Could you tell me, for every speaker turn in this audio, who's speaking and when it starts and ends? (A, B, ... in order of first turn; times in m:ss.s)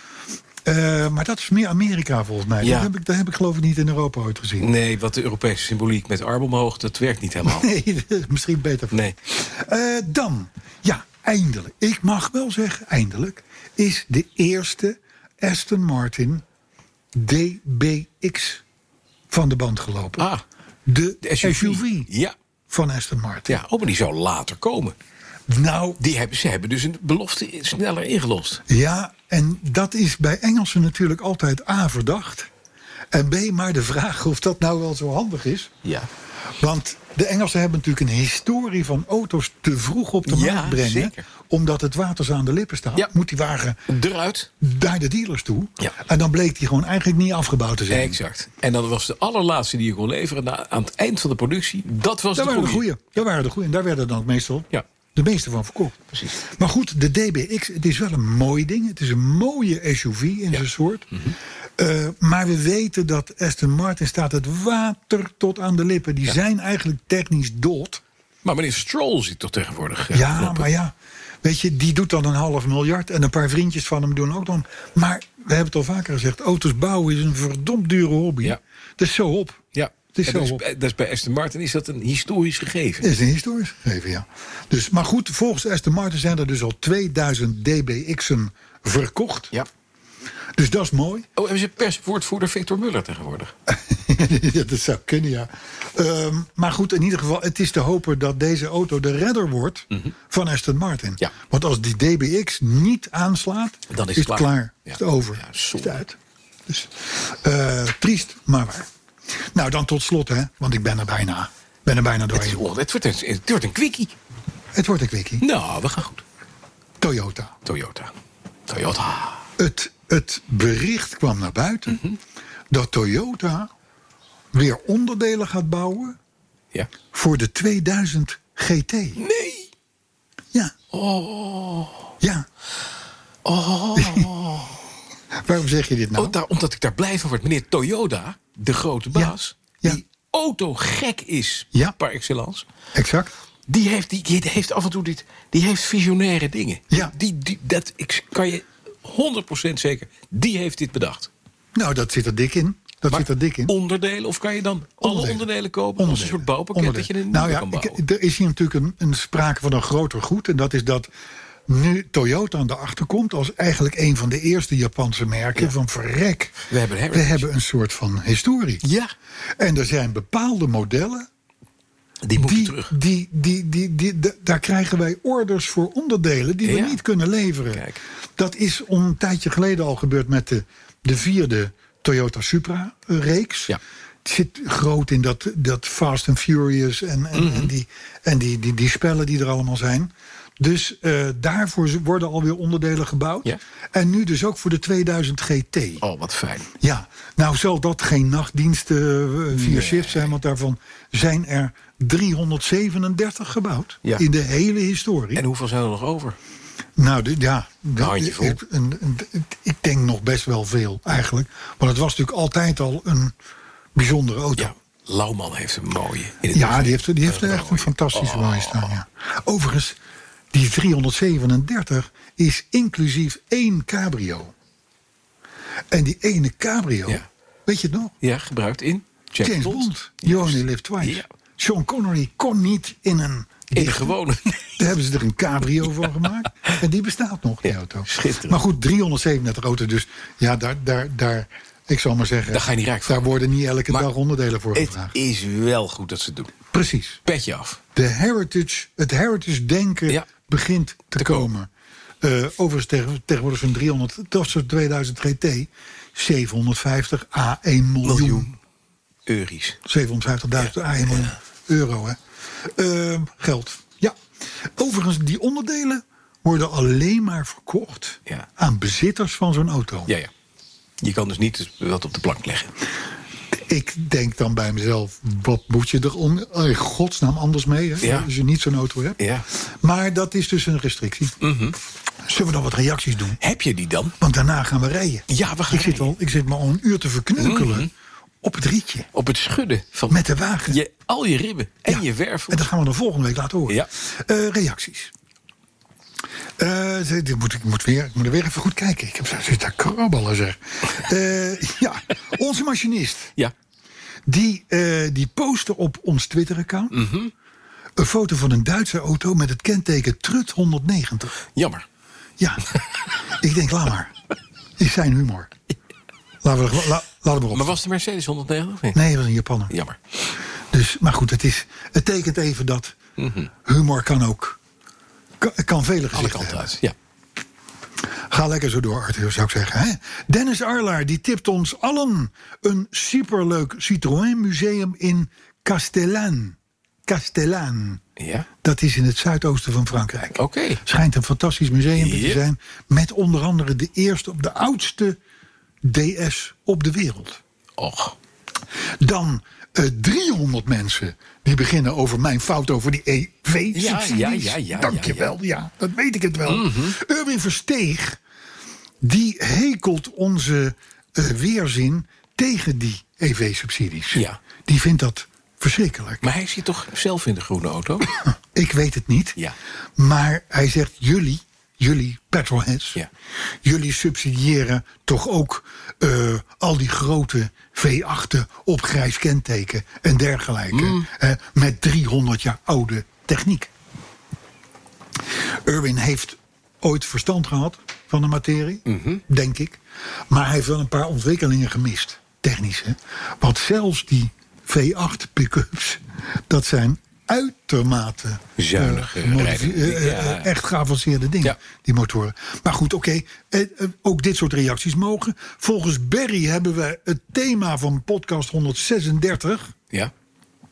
0:00.6-0:04.7 A
0:02.6-0:02.9 B
0:04.6-0:07.7 B
0:07.4-0:16.4 A
0:17.1-0:18.6 A
0:19.3-0:20.3 A
0:20.2-0:20.4 B
0:20.8-0:22.1 A
0:21.2-0:22.3 B
0:22.7-0:23.6 A
0:23.5-0:24.9 B
0:25.5-0:26.0 A
0:26.0-0:28.6 B
0:28.7-0:32.5 A
0:33.1-0:35.7 A
0:35.8-0:36.1 B
0:36.6-0:43.8 A
0:40.2-0:41.2 B
0:43.9-0:44.5 B
0:44.6-0:48.2 A
0:47.9-0:52.9 B
0:52.3-1:01.1 A
0:56.1-0:56.4 B
1:00.5-1:01.4 B
1:01.8-1:08.0 A
1:08.4-1:10.7 B
1:10.1-1:20.6 A
1:19.7-1:23.1 B
1:23.0-1:29.5 A
1:30.6-1:31.3 A
1:31.4-1:33.5 B
1:33.7-1:46.2 A
1:43.9-1:46.0 B
1:46.7-1:48.9 A
1:49.4-1:52.6 A
1:52.3-1:54.2 B
1:54.7-1:55.4 A
1:55.4-1:56.2 B
1:57.0-1:57.6 A
1:57.6-1:58.1 B
1:58.7-1:59.4 B
1:59.6-2:02.0 A
2:01.9-2:02.2 B
2:02.7-2:03.7 A
2:04.5-2:06.2 A
2:07.1-2:09.2 A
2:09.2-2:09.7 B
2:10.9-2:12.1 B
2:12.2-2:12.4 A
2:13.4-2:14.8 B
2:14.0-2:14.3 A
2:15.3-2:16.4 A
2:16.2-2:22.7 B
2:19.1-2:20.0 A
2:22.9-2:23.3 A
2:23.7-2:31.3 B
2:31.7-2:33.7 A
2:33.1-2:38.0 B
2:35.0-2:41.1 A
2:41.7-2:48.8 A
2:46.7-2:47.5 B
2:48.8-2:49.1 B
2:49.6-2:51.3 A
2:52.2-2:52.9 B
2:52.4-3:16.0 A
2:56.6-2:57.0 B
2:57.7-2:58.0 B
3:07.3-3:07.7 B
3:16.0-3:16.7 B
3:16.8-3:25.4 A
3:19.5-3:20.3 B
3:25.4-3:26.4 B
3:27.0-3:33.3 A
3:28.0-3:28.6 B
3:33.9-3:34.7 A
3:34.6-3:39.0 B
3:36.5-3:40.0 A
3:40.5-3:44.5 A
3:45.9-3:48.1 A
3:48.2-3:51.3 B
3:49.4-4:05.1 A
3:53.7-3:54.6 B
3:57.6-3:58.6 B
4:02.5-4:03.3 B
4:04.7-4:06.5 B
4:06.7-4:07.2 A
4:07.2-4:07.8 B
4:07.9-4:11.7 A
4:11.2-4:11.5 B
4:12.2-4:18.5 A
4:18.0-4:18.6 B
4:19.2-4:19.8 B
4:19.8-4:24.2 A
4:20.6-4:21.4 B
4:24.8-4:30.1 A
4:31.0-4:32.7 B
4:33.5-4:41.4 A
4:38.0-4:38.3 B
4:39.2-4:39.4 B
4:41.4-4:41.8 B
4:42.2-4:43.4 A
4:43.4-4:44.2 B
4:44.2-4:47.9 A
4:45.3-4:46.1 B
4:47.4-4:47.9 B
4:48.4-4:49.1 A
4:49.1-4:52.6 B
4:50.1-4:50.8 A
4:51.9-4:55.1 A
4:56.6-5:03.3 A
5:04.3-5:07.0 A
5:06.9-5:07.3 B
5:08.0-5:11.4 A
5:11.5-5:11.8 B
5:12.4-5:12.6 A
5:13.3-5:14.1 A
5:14.8-5:15.5 A
5:16.4-5:17.8 A
5:17.5-5:19.0 B
5:18.9-5:19.7 A
5:19.7-5:20.0 B
5:20.7-5:23.0 A
5:23.2-5:23.5 B
5:23.6-5:24.6 A
5:25.4-5:26.7 A
5:26.1-5:26.9 B
5:28.3-5:38.0 A
5:38.2-5:38.5 B
5:38.6-5:45.2 A
5:40.4-5:40.8 B
5:42.0-5:42.4 B
5:45.8-5:47.4 A
5:47.8-5:48.2 B
5:49.0-5:58.2 A
5:53.7-5:55.3 B
5:56.4-5:57.0 B
5:59.0-6:06.2 A
6:04.1-6:04.4 B
6:06.2-6:08.2 B
6:08.3-6:09.4 A
6:10.0-6:13.0 A
6:13.6-6:23.7 A
6:20.7-6:21.1 B
6:25.6-6:49.7 A
6:28.8-6:29.2 B
6:38.6-6:40.5 B